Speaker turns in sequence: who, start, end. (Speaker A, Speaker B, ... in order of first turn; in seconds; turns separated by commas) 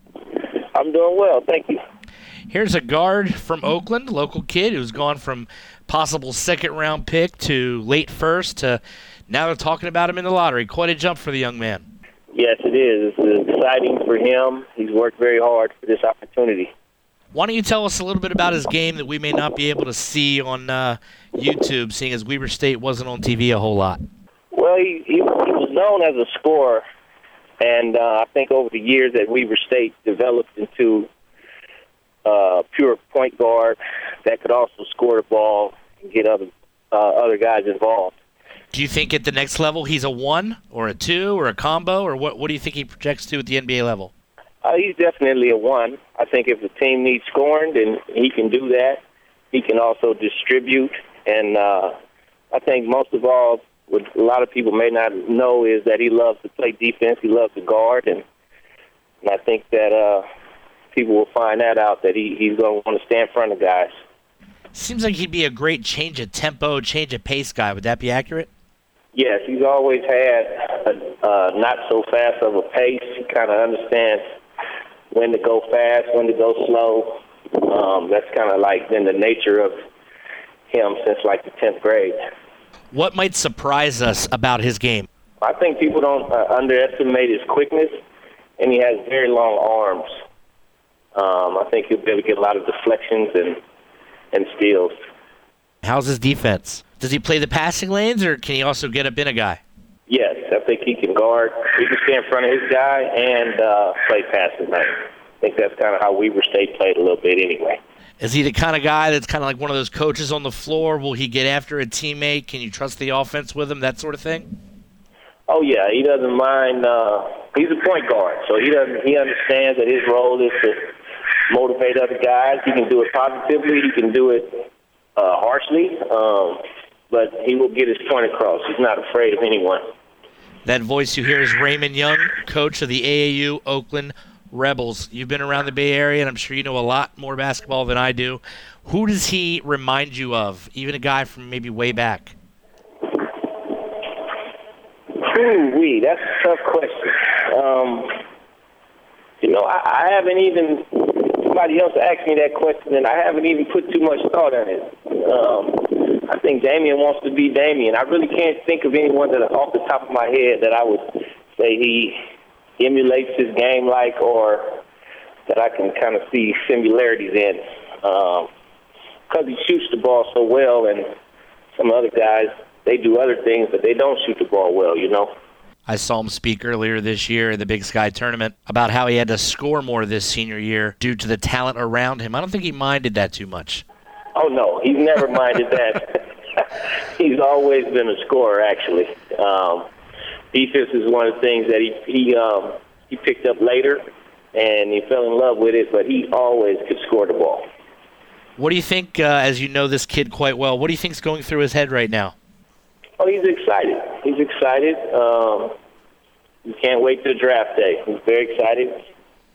Speaker A: 0.4-1.8, Speaker B: 2.5-11.9, Speaker A: 12.3-16.7, Speaker B: 17.3-24.0, Speaker A: 24.5-26.8, Speaker A: 27.6-31.1, Speaker A: 32.2-38.1, Speaker B: 38.7-44.1, Speaker A: 44.6-49.0, Speaker A: 49.5-51.9, Speaker A: 52.5-58.2, Speaker A: 59.2-60.2, Speaker A: 60.9-63.9, Speaker B: 64.7-68.5, Speaker A: 69.1-74.2, Speaker A: 75.1-79.7, Speaker A: 80.7-82.2, Speaker B: 82.9-85.1, Speaker A: 85.4-88.0, Speaker A: 88.6-90.1, Speaker A: 91.1-93.6, Speaker A: 94.3-94.9, Speaker B: 95.8-99.6, Speaker A: 100.1-107.8, Speaker B: 108.2-114.4, Speaker A: 115.5-120.9, Speaker A: 121.5-129.8, Speaker B: 130.6-142.3, Speaker A: 145.1-148.2, Speaker A: 149.4-162.2, Speaker A: 162.8-164.8, Speaker A: 165.5-168.5, Speaker A: 169.3-171.1, Speaker A: 171.7-175.3, Speaker B: 175.9-183.8, Speaker A: 184.3-189.8, Speaker A: 190.5-194.0, Speaker A: 194.5-197.6, Speaker B: 198.6-202.3, Speaker A: 203.2-205.7, Speaker A: 206.7-209.0